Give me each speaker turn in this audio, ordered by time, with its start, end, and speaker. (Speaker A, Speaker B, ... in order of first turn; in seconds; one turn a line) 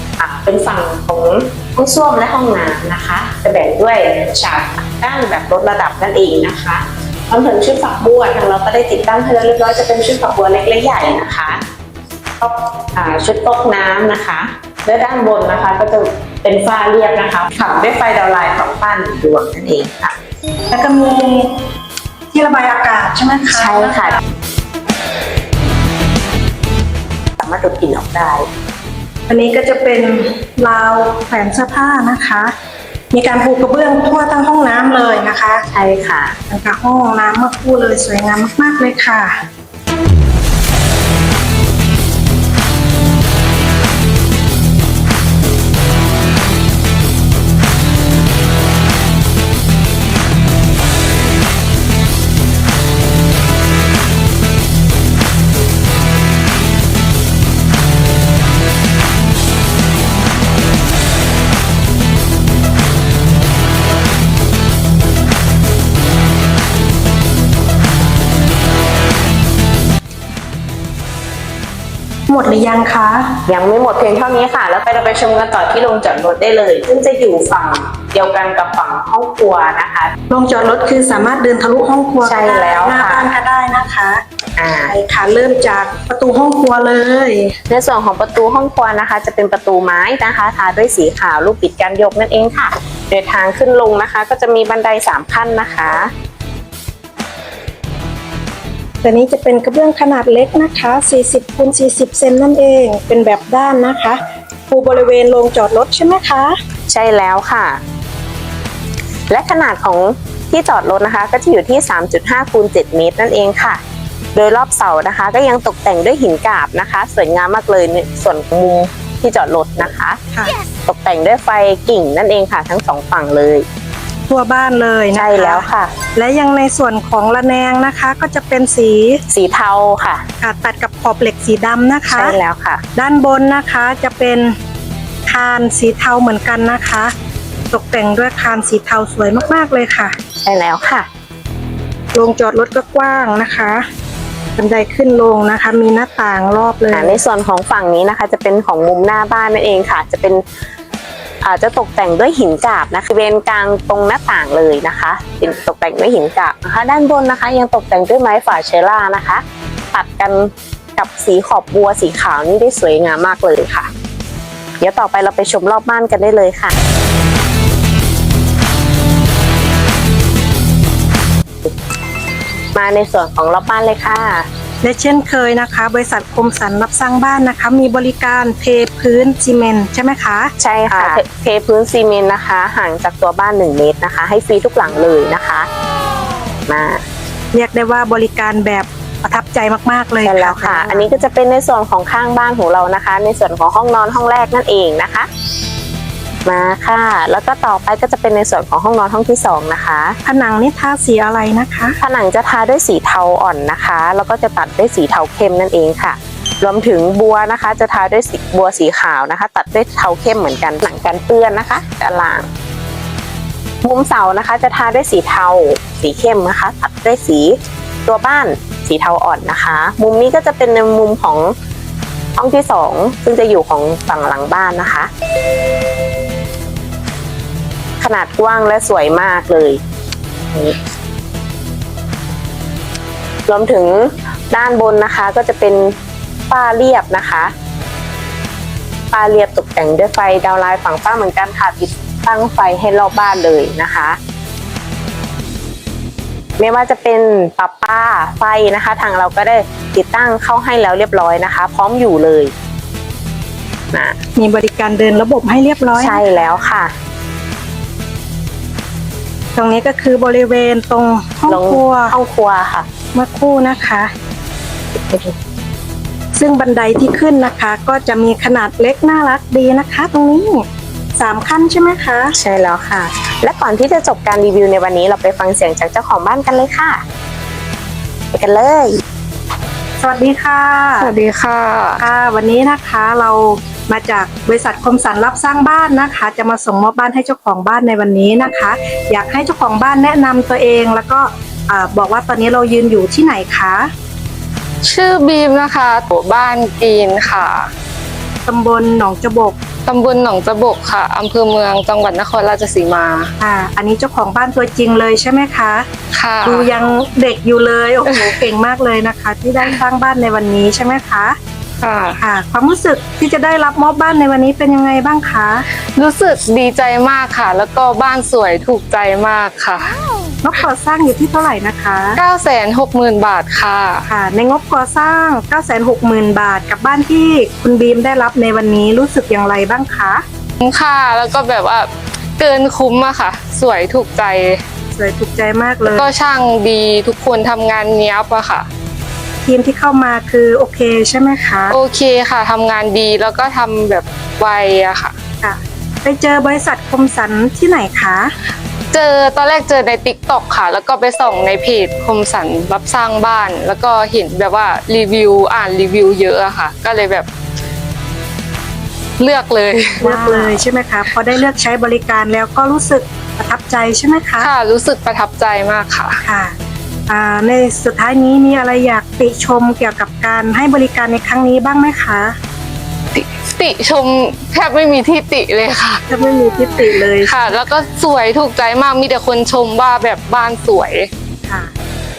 Speaker A: 0.2-11.6
Speaker A: 12.4-20.1
Speaker B: 20.7-21.5
Speaker B: 22.3-24.2
Speaker A: 23.5-24.2
Speaker A: 27.4-28.5
Speaker B: 29.3-32.5
Speaker B: 33.1-35.6
Speaker A: 35.7-36.4
Speaker B: 36.5-39.3
Speaker B: 72.3-73.3
Speaker A: 73.5-80.1
Speaker B: 80.3-84.2
Speaker A: 82.2-83.2
Speaker A: 84.6-84.9
Speaker B: 84.8-87.5
Speaker A: 87.7-96.1
Speaker B: 99.0-104.2
Speaker B: 104.7-106.5
Speaker A: 106.9-107.8
Speaker A: 109.3-113.8
Speaker A: 114.3-120.2
Speaker A: 120.8-123.7
Speaker B: 124.3-129.2
Speaker A: 125.1-125.9
Speaker A: 129.3-130.2
Speaker B: 130.4-132.4
Speaker A: 132.1-132.8
Speaker B: 132.9-134.5
Speaker B: 135.3-137.1
Speaker B: 137.7-140.1
Speaker A: 140.4-141.1
Speaker B: 142.1-143.8
Speaker B: 144.6-147.2
Speaker A: 146.9-150.4
Speaker A: 151.4-163.9
Speaker A: 164.8-166.7
Speaker A: 172.7-174.4
Speaker B: 174.8-180.5
Speaker A: 180.6-185.7
Speaker A: 186.7-187.0
Speaker B: 187.5-191.1
Speaker A: 190.2-195.3
Speaker A: 196.4-200.2
Speaker B: 200.2-202.0
Speaker A: 202.0-212.5
Speaker A: 213.8-221.5
Speaker A: 222.4-225.1
Speaker A: 228.0-229.8
Speaker A: 233.5-235.9
Speaker A: 236.5-237.5
Speaker A: 239.1-244.2
Speaker A: 246.6-252.5
Speaker B: 254.4-256.2
Speaker A: 255.9-256.9
Speaker B: 259.6-262.1
Speaker A: 261.5-262.9
Speaker B: 263.1-264.1
Speaker A: 265.0-265.3
Speaker B: 266.3-270.6
Speaker B: 271.1-272.3
Speaker A: 272.3-277.0
Speaker A: 278.3-279.0
Speaker B: 280.0-281.1
Speaker C: 281.0-282.0
Speaker B: 282.0-293.9
Speaker C: 294.8-297.7
Speaker B: 298.4-299.6
Speaker C: 299.9-303.3
Speaker B: 303.4-305.9
Speaker C: 306.1-306.7
Speaker B: 306.4-311.4
Speaker C: 311.8-312.2
Speaker B: 312.2-315.6
Speaker C: 315.9-319.9
Speaker B: 320.4-322.2
Speaker C: 322.2-324.1
Speaker B: 324.1-330.2
Speaker C: 330.6-334.6
Speaker B: 334.9-336.1
Speaker C: 335.9-338.6
Speaker B: 339.4-341.8
Speaker C: 341.7-345.1
Speaker B: 345.4-348.3
Speaker C: 348.9-357.3
Speaker C: 359.2-360.6
Speaker B: 360.0-364.5
Speaker C: 364.4-366.2
Speaker B: 366.2-366.5
Speaker B: 367.1-372.3
Speaker C: 373.1-376.0
Speaker B: 376.1-377.5
Speaker C: 377.0-381.1
Speaker B: 381.5-381.7